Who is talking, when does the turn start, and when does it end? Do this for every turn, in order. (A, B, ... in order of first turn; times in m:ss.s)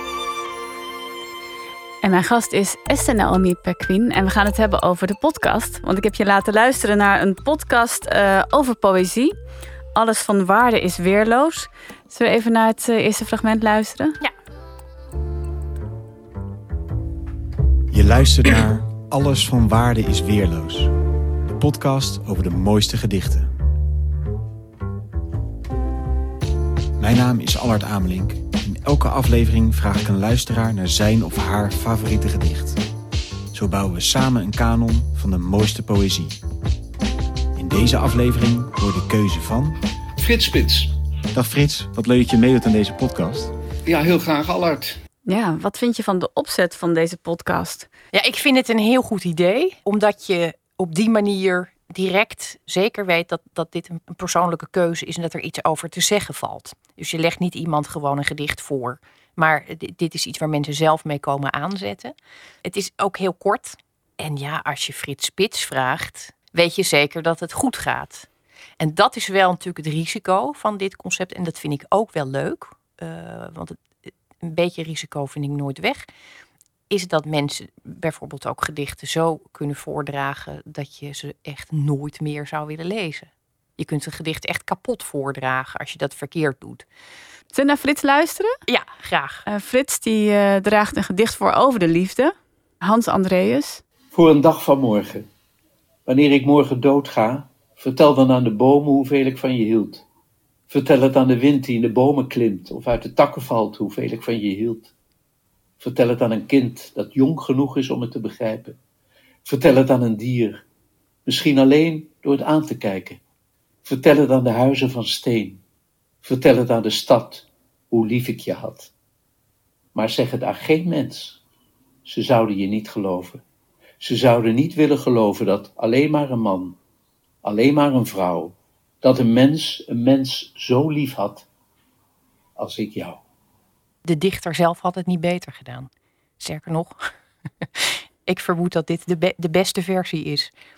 0:02.0-0:09.3 A
0:10.0-0:14.2 A
0:17.9-0:20.9 B
0:21.6-0:23.5 B
0:27.0-0:32.8 B
0:33.5-0:36.4 B
0:37.6-0:39.8 B
0:40.2-0:40.9 C
0:41.3-0:43.5 B
0:43.9-0:45.0 C
0:45.3-0:47.9 A
0:48.1-1:08.3 D
1:08.8-1:13.8 D
1:14.4-1:16.1 D
1:16.9-1:26.9 D
1:27.5-1:28.6 A
1:28.7-1:29.4 D
1:29.5-1:33.8 A
1:34.1-1:35.3 C
1:36.1-1:40.0 C
1:40.7-1:44.9 C
1:45.8-1:48.8 C
1:49.4-1:50.6 C
1:51.3-1:53.2 C
1:53.8-1:55.6 C
1:56.2-1:58.9 C
1:59.9-2:01.4 C
2:02.0-2:03.4 C
2:04.0-2:06.8 C
2:07.4-2:11.5 C
2:12.6-2:13.2 C
2:14.0-2:17.0 D
2:17.6-2:20.5 D